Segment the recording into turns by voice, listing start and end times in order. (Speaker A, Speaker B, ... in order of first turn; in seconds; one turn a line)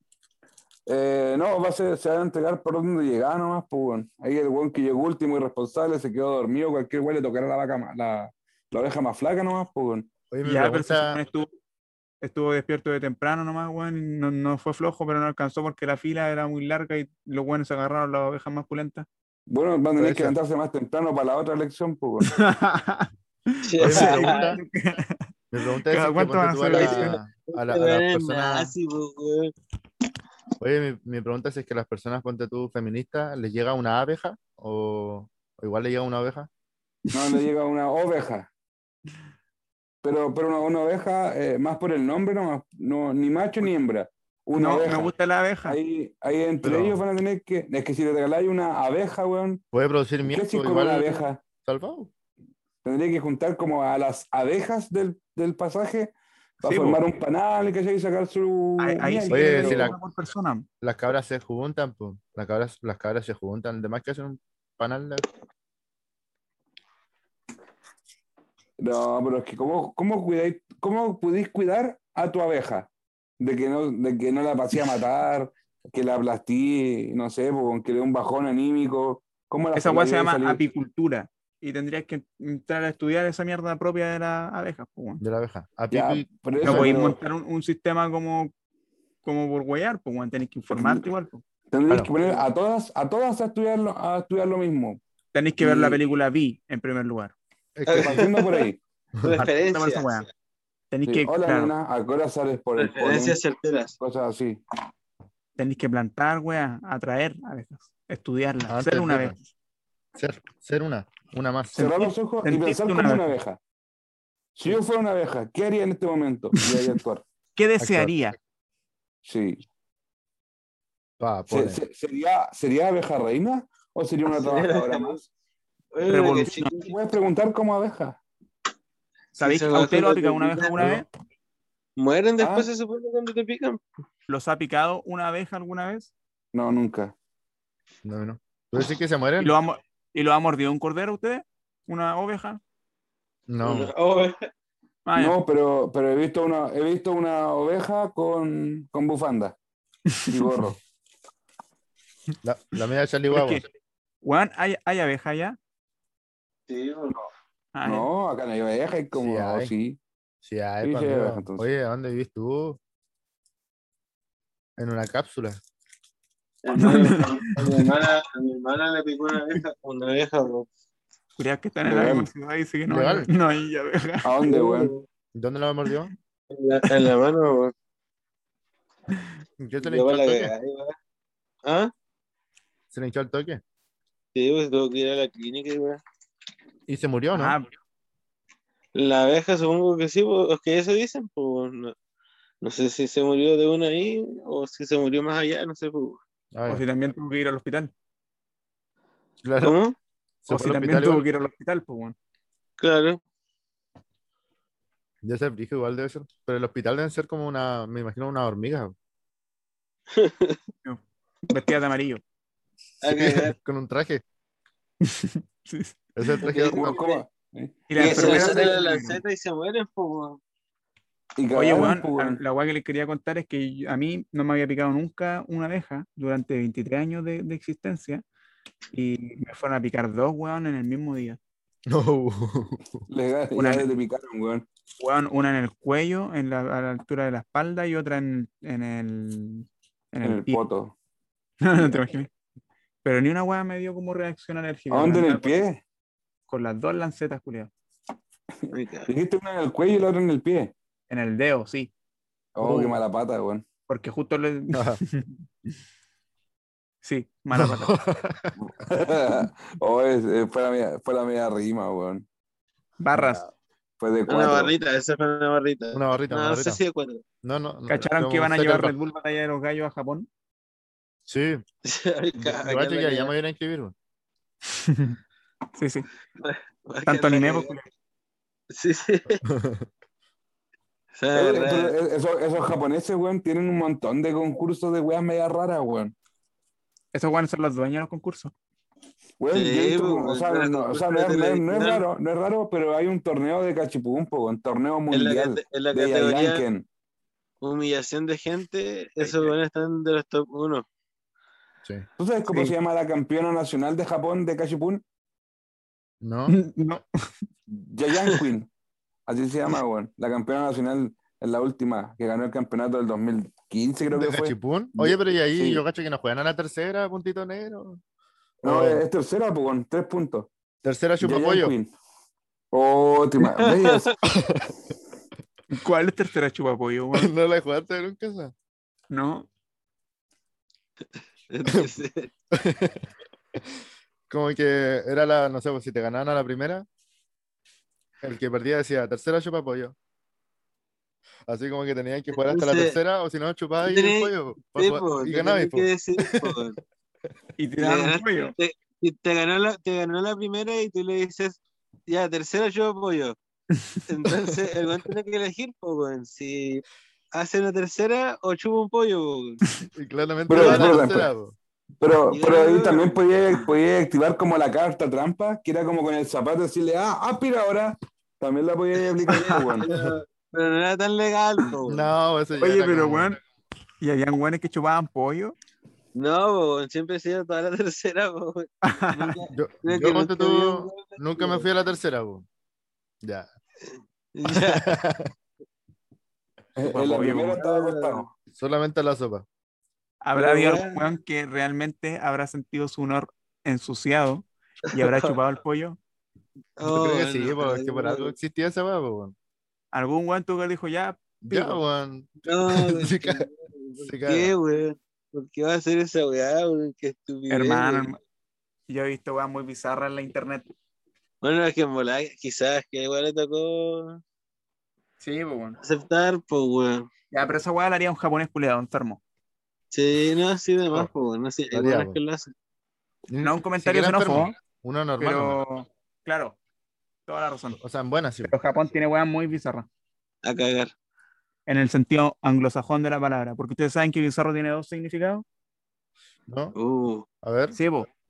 Speaker A: 0.9-10.1
Speaker B: 10.3-11.2
Speaker C: 10.4-11.5
Speaker C: 12.2-19.1
Speaker A: 19.5-22.4
Speaker B: 20.0-20.4
Speaker C: 22.3-25.3
Speaker D: 23.6-24.6
Speaker B: 23.8-24.6
Speaker B: 25.5-28.7
Speaker C: 25.9-27.2
Speaker D: 26.7-29.5
Speaker B: 30.6-36.5
Speaker C: 37.1-37.4
Speaker A: 37.1-38.5
Speaker A: 40.0-45.1
Speaker C: 44.5-45.8
Speaker A: 45.7-49.6
Speaker B: 46.6-47.0
Speaker B: 49.7-52.1
Speaker A: 50.3-51.4
Speaker A: 52.8-60.0
Speaker C: 56.6-57.0
Speaker C: 58.8-60.7
Speaker B: 59.3-60.0
Speaker B: 60.8-65.3
Speaker A: 68.8-72.9
Speaker A: 73.4-80.6
Speaker C: 79.8-85.2
Speaker B: 85.2-87.0
Speaker A: 85.9-87.2
Speaker C: 86.6-88.5
Speaker C: 89.2-91.4
Speaker A: 90.7-91.1
Speaker A: 91.7-95.0
Speaker C: 95.3-97.3
Speaker A: 95.6-96.0
Speaker B: 97.8-98.3
Speaker D: 97.9-98.7
Speaker A: 97.9-98.8
Speaker D: 99.2-100.2
Speaker C: 99.4-100.3
Speaker C: 100.9-101.7
Speaker A: 101.1-103.4
Speaker D: 102.8-104.0
Speaker A: 104.0-104.6
Speaker C: 105.6-109.4
Speaker B: 108.7-109.4
Speaker B: 110.2-111.9
Speaker C: 111.7-113.3
Speaker A: 111.8-113.6
Speaker A: 114.5-117.2
Speaker C: 117.6-118.4
Speaker B: 117.8-118.2
Speaker A: 119.2-119.6
Speaker B: 121.2-121.8
Speaker A: 121.5-125.3
Speaker D: 124.3-125.2
Speaker D: 125.9-126.9
Speaker C: 126.0-126.8
Speaker A: 126.7-128.2
Speaker C: 129.4-131.1
Speaker D: 129.4-130.9
Speaker D: 132.0-133.8
Speaker A: 132.4-132.7
Speaker C: 134.3-136.1
Speaker A: 136.5-137.1
Speaker B: 138.0-139.5
Speaker C: 139.4-142.6
Speaker B: 143.5-143.9
Speaker D: 143.6-144.5
Speaker C: 145.1-145.4
Speaker A: 145.2-149.6
Speaker A: 150.3-150.8
Speaker B: 152.4-153.6
Speaker C: 153.3-153.7
Speaker C: 154.2-155.6
Speaker D: 156.7-157.2
Speaker C: 157.7-158.1
Speaker A: 157.8-160.0
Speaker B: 159.1-159.7
Speaker B: 160.4-162.8
Speaker A: 160.8-161.7
Speaker B: 164.8-165.6
Speaker D: 166.6-170.7
Speaker C: 166.8-167.8
Speaker C: 171.4-174.3
Speaker A: 171.8-172.3
Speaker B: 172.9-173.3
Speaker A: 174.2-174.9
Speaker D: 174.4-175.1
Speaker B: 175.3-176.1
Speaker D: 176.5-177.7
Speaker B: 179.6-180.6
Speaker D: 179.8-181.0
Speaker D: 181.6-181.9
Speaker B: 182.9-183.6
Speaker D: 184.3-186.0
Speaker B: 186.9-187.6
Speaker C: 187.3-187.7
Speaker D: 188.9-191.9
Speaker D: 192.6-196.2
Speaker B: 196.5-196.8
Speaker C: 196.7-197.9
Speaker B: 199.4-199.8
Speaker D: 199.6-200.0
Speaker B: 200.4-201.2
Speaker C: 200.5-202.2
Speaker D: 202.8-203.2
Speaker B: 205.2-208.9
Speaker D: 210.1-210.6
Speaker C: 210.8-212.2
Speaker D: 213.0-213.6
Speaker B: 213.0-214.2
Speaker C: 215.0-216.4
Speaker B: 216.2-217.0
Speaker D: 216.4-217.2
Speaker A: 216.6-218.7
Speaker C: 217.9-219.2
Speaker D: 218.0-220.4
Speaker A: 221.4-222.4
Speaker C: 221.5-228.2
Speaker C: 228.9-231.4
Speaker B: 231.9-233.1
Speaker A: 233.1-234.7
Speaker C: 233.6-233.9
Speaker C: 235.0-240.6
Speaker A: 240.2-240.9
Speaker C: 241.6-242.3
Speaker C: 243.0-245.6
Speaker A: 244.9-245.8
Speaker C: 246.5-247.7
Speaker A: 248.6-250.7
Speaker D: 248.7-249.1
Speaker C: 251.1-251.9
Speaker A: 252.6-253.7
Speaker B: 252.6-253.0
Speaker C: 253.9-255.4
Speaker B: 254.7-255.0
Speaker C: 257.0-258.0
Speaker B: 257.5-258.5
Speaker A: 258.6-262.2
Speaker C: 263.0-263.4
Speaker B: 263.1-263.5
Speaker A: 264.0-264.7
Speaker D: 264.3-267.2
Speaker B: 265.9-266.8
Speaker B: 267.4-268.9
Speaker C: 267.9-270.3
Speaker B: 271.3-271.6
Speaker D: 271.9-273.3
Speaker B: 272.4-273.9
Speaker C: 274.7-275.2
Speaker C: 275.8-276.1
Speaker D: 276.4-277.7
Speaker C: 277.1-277.9
Speaker D: 278.7-279.4
Speaker B: 279.4-279.9
Speaker D: 281.1-281.9
Speaker A: 281.3-286.1
Speaker C: 287.1-288.5
Speaker A: 289.4-296.9
Speaker D: 289.5-292.0
Speaker D: 295.1-296.6
Speaker D: 297.6-300.9
Speaker C: 299.2-299.5
Speaker A: 302.2-305.0
Speaker B: 306.2-306.6
Speaker C: 306.5-307.4
Speaker A: 307.7-308.7
Speaker A: 309.3-315.8
Speaker B: 314.1-318.0
Speaker B: 318.6-319.1
Speaker A: 318.6-320.5
Speaker B: 320.8-321.8
Speaker A: 321.2-321.9
Speaker A: 322.7-324.2
Speaker D: 323.4-324.1
Speaker B: 324.3-324.7
Speaker C: 325.7-327.3
Speaker B: 327.1-328.5
Speaker C: 329.1-329.5
Speaker D: 331.5-332.3
Speaker B: 332.5-333.0
Speaker B: 334.3-336.9
Speaker B: 338.2-339.9
Speaker B: 341.5-346.6
Speaker D: 342.4-343.0
Speaker D: 343.8-346.8
Speaker C: 347.6-348.6
Speaker D: 347.8-353.4
Speaker C: 353.7-354.1
Speaker D: 354.1-359.8
Speaker B: 360.0-361.6
Speaker A: 360.5-361.3
Speaker D: 360.6-361.0
Speaker A: 362.0-369.9
Speaker D: 362.3-363.7
Speaker C: 369.3-369.7
Speaker D: 369.3-372.1
Speaker B: 369.9-370.2
Speaker B: 371.9-373.4
Speaker C: 372.6-373.4
Speaker C: 374.0-375.6
Speaker D: 376.1-381.7
Speaker C: 378.8-379.4
Speaker B: 379.5-382.4
Speaker B: 383.2-383.5
Speaker D: 384.3-384.9
Speaker B: 384.5-385.3
Speaker A: 386.8-388.3
Speaker C: 386.9-387.6
Speaker D: 387.6-388.3
Speaker B: 388.5-389.5
Speaker C: 390.2-396.0
Speaker D: 390.4-391.1
Speaker D: 394.9-395.4
Speaker D: 396.8-398.3
Speaker B: 396.8-399.3
Speaker C: 399.9-401.8
Speaker B: 401.4-403.5
Speaker D: 402.4-408.1
Speaker B: 404.1-404.5
Speaker C: 407.5-408.2
Speaker C: 408.9-410.7
Speaker D: 411.4-414.2
Speaker C: 415.2-415.8
Speaker D: 415.8-417.1
Speaker C: 417.3-419.2
Speaker D: 419.9-422.5
Speaker B: 421.7-422.2
Speaker B: 423.3-425.6
Speaker C: 423.4-424.6
Speaker C: 425.2-426.6
Speaker C: 427.3-427.8
Speaker B: 427.8-428.5
Speaker C: 428.4-429.9
Speaker D: 430.4-430.9
Speaker C: 431.7-435.4
Speaker B: 436.5-436.8
Speaker D: 436.8-437.3
Speaker B: 437.4-437.8
Speaker C: 437.7-438.1